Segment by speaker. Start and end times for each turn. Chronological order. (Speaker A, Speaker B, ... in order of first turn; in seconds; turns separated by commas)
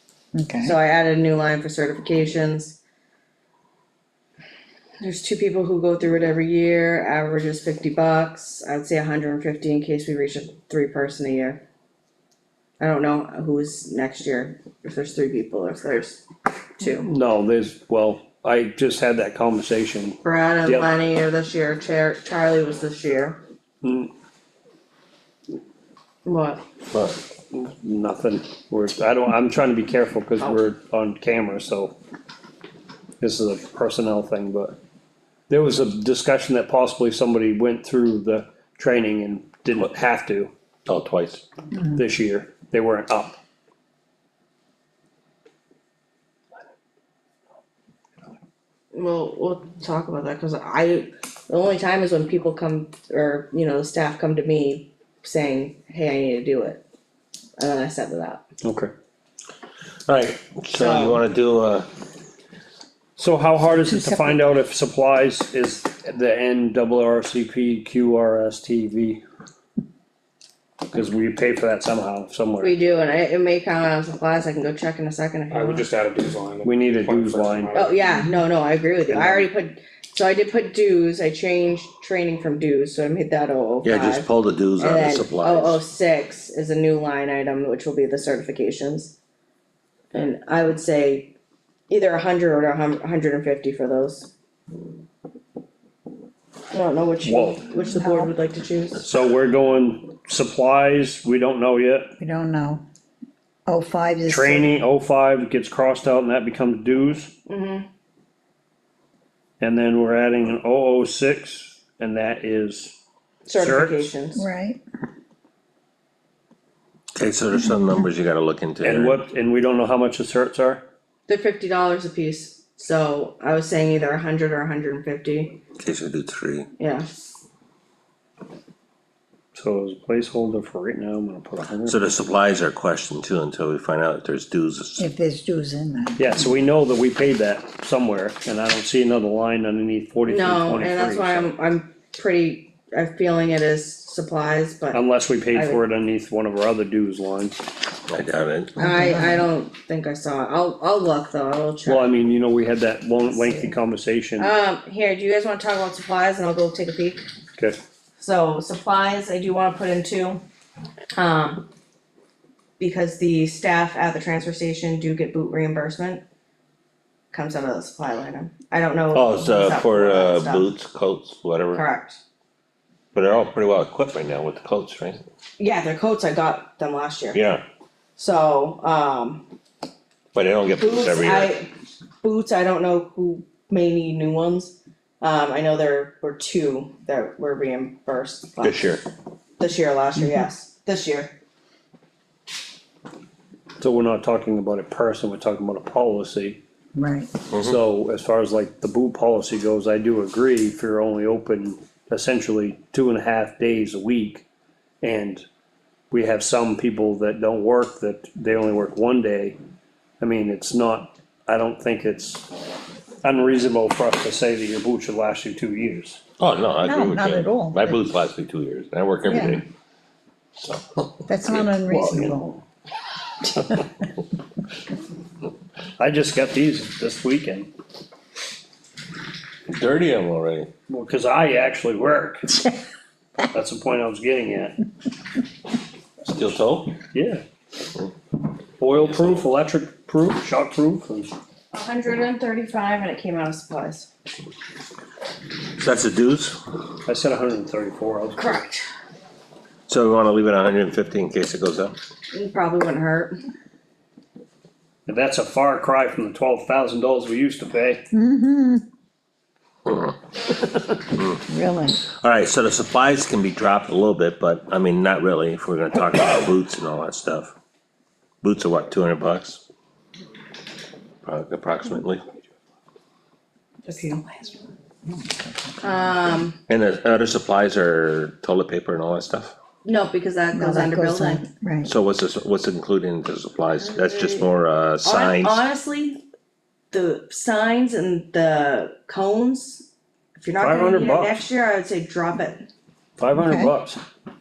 Speaker A: 0.3-0.8, Speaker B: 0.6-2.8, Speaker B: 5.0-11.6, Speaker B: 12.8-16.2, Speaker B: 16.8-17.1, Speaker C: 16.8-20.9, Speaker B: 20.2-23.4, Speaker C: 23.8-24.1, Speaker B: 26.2-26.6, Speaker D: 26.9-27.2, Speaker C: 27.5-31.9, Speaker C: 33.2-34.8, Speaker C: 35.5-40.5, Speaker D: 40.9-41.4, Speaker C: 41.9-43.4, Speaker B: 48.9-56.8, Speaker B: 57.6-58.4, Speaker C: 58.6-58.9, Speaker D: 60.1-61.9, Speaker B: 60.7-61.2, Speaker C: 63.2-69.2, Speaker C: 70.9-72.7, Speaker B: 72.6-75.9, Speaker E: 75.5-78.0, Speaker C: 76.6-77.9, Speaker B: 77.7-89.2, Speaker C: 79.1-79.5, Speaker D: 83.8-85.8, Speaker B: 90.1-91.3, Speaker B: 91.9-94.3, Speaker B: 96.7-99.0, Speaker C: 97.2-97.7, Speaker A: 97.9-98.3, Speaker C: 99.0-102.1, Speaker A: 102.2-102.8, Speaker A: 103.7-104.7, Speaker C: 104.3-107.3, Speaker B: 107.5-107.9, Speaker C: 109.6-113.0, Speaker B: 113.5-114.4, Speaker C: 113.5-114.1, Speaker A: 114.3-114.8, Speaker D: 117.2-119.2, Speaker C: 118.8-120.8, Speaker B: 121.3-125.6, Speaker D: 125.8-126.7, Speaker B: 126.8-127.0, Speaker C: 129.6-132.0, Speaker D: 131.9-135.1, Speaker A: 135.0-136.3, Speaker C: 136.2-141.5, Speaker B: 140.2-145.8, Speaker C: 144.9-147.6, Speaker D: 148.1-148.8, Speaker B: 148.8-152.1, Speaker A: 148.8-149.4, Speaker C: 151.9-154.5, Speaker B: 154.4-157.2, Speaker B: 158.2-160.4, Speaker B: 161.1-161.7, Speaker B: 162.8-166.2, Speaker B: 167.3-170.7, Speaker D: 169.1-171.8, Speaker B: 171.7-172.2, Speaker D: 173.1-175.2, Speaker B: 175.6-177.4, Speaker D: 177.3-177.6, Speaker B: 178.2-179.4, Speaker D: 180.3-181.5, Speaker B: 180.8-181.7, Speaker B: 182.2-188.8, Speaker D: 188.6-189.0, Speaker B: 189.6-191.3, Speaker C: 193.8-196.6, Speaker A: 197.0-197.4, Speaker C: 197.6-204.4, Speaker C: 205.0-205.4, Speaker C: 206.1-209.6, Speaker C: 210.2-212.5, Speaker C: 213.2-216.2, Speaker D: 216.4-219.7, Speaker A: 216.8-218.0, Speaker A: 219.3-219.6, Speaker D: 220.6-221.7, Speaker A: 221.3-222.5, Speaker C: 221.9-222.6, Speaker C: 226.0-227.7, Speaker D: 229.7-230.7, Speaker C: 230.9-232.7, Speaker C: 233.5-234.8, Speaker D: 236.2-237.0, Speaker C: 237.1-237.4, Speaker C: 238.8-241.4, Speaker D: 238.9-239.4, Speaker B: 241.7-244.1, Speaker D: 245.8-246.6, Speaker C: 247.1-248.6, Speaker B: 248.4-248.8, Speaker D: 249.9-251.9, Speaker B: 252.3-253.4, Speaker C: 255.1-258.1, Speaker A: 258.1-258.8, Speaker D: 259.9-261.4, Speaker A: 261.5-262.0, Speaker D: 262.0-267.5, Speaker D: 268.4-269.6, Speaker D: 271.2-272.2, Speaker B: 273.9-274.3, Speaker B: 275.8-276.6, Speaker D: 276.7-279.5, Speaker B: 279.8-281.5, Speaker A: 280.5-281.9, Speaker D: 281.8-285.6, Speaker B: 283.8-284.4, Speaker B: 285.0-286.2, Speaker B: 286.9-292.7, Speaker C: 290.6-291.4, Speaker C: 293.2-294.0, Speaker A: 293.4-293.7